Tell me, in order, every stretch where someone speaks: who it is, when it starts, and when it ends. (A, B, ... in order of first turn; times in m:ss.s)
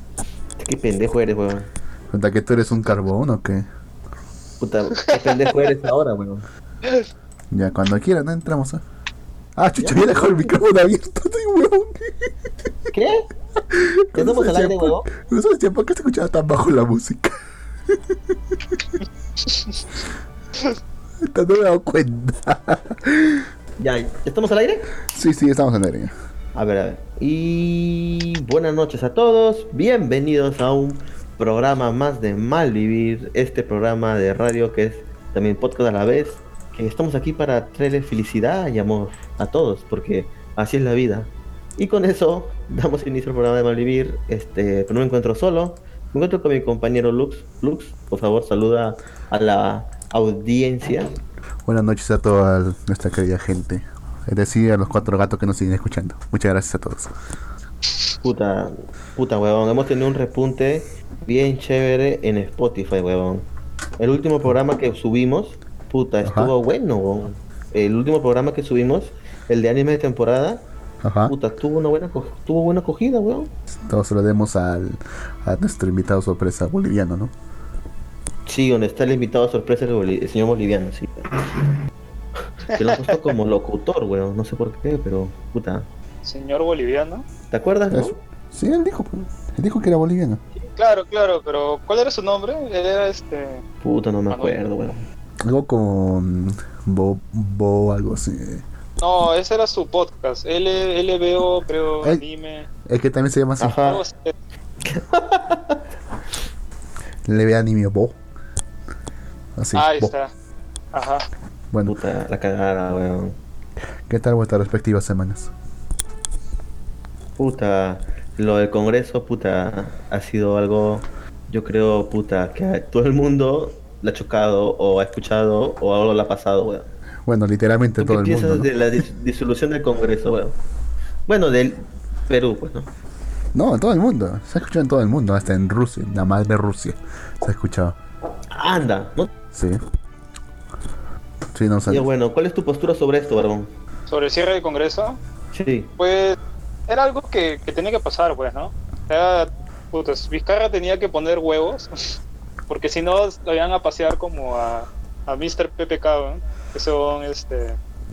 0:00.6-0:01.7 A
0:02.1-0:03.6 B
0:04.6-0:06.4 A
0:07.5-0:08.8 B
0:09.6-0:12.3 B
0:09.8-0:10.5 A
0:12.9-0:13.3 A
0:13.7-0:17.4 B
0:14.1-0:15.1 A
0:17.9-0:18.1 B
0:21.2-0:23.4 B
0:23.8-0:24.9 A
0:25.1-0:26.1 B
0:26.5-0:51.2 A
0:51.6-0:57.1 B
0:58.2-1:03.5 A
1:04.0-1:10.6 A
1:06.2-1:06.5 B
1:11.0-1:11.3 B
1:11.3-1:13.5 A
1:13.9-1:17.3 B
1:18.4-1:21.8 A
1:22.7-1:25.9 A
1:26.2-1:27.2 C
1:27.5-1:28.2 A
1:27.9-1:30.4 B
1:30.6-1:33.6 C
1:33.8-1:35.0 A
1:34.3-1:34.6 C
1:35.4-1:38.6 B
1:39.0-1:42.7 C
1:42.8-1:43.8 B
1:43.6-1:44.0 A
1:43.8-1:44.3 C
1:44.8-1:45.8 A
1:47.2-1:48.2 B
1:49.6-1:50.1 B
1:49.7-1:50.3 C
1:50.9-1:51.2 C
1:51.7-1:52.0 B
1:51.8-1:53.4 A
1:54.1-1:55.5 B
1:57.4-2:06.9 A
2:07.2-2:08.7 B
2:08.0-2:10.5 A
2:11.3-2:12.9 A
2:13.5-2:18.0 B
2:18.5-2:19.3 A
2:19.5-2:19.8 B
2:21.5-2:22.0 B
2:21.9-2:23.7 A
2:24.1-2:25.2 C
2:25.5-2:25.9 A
2:26.0-2:26.4 C
2:26.9-2:32.1 C
2:32.7-2:37.8 C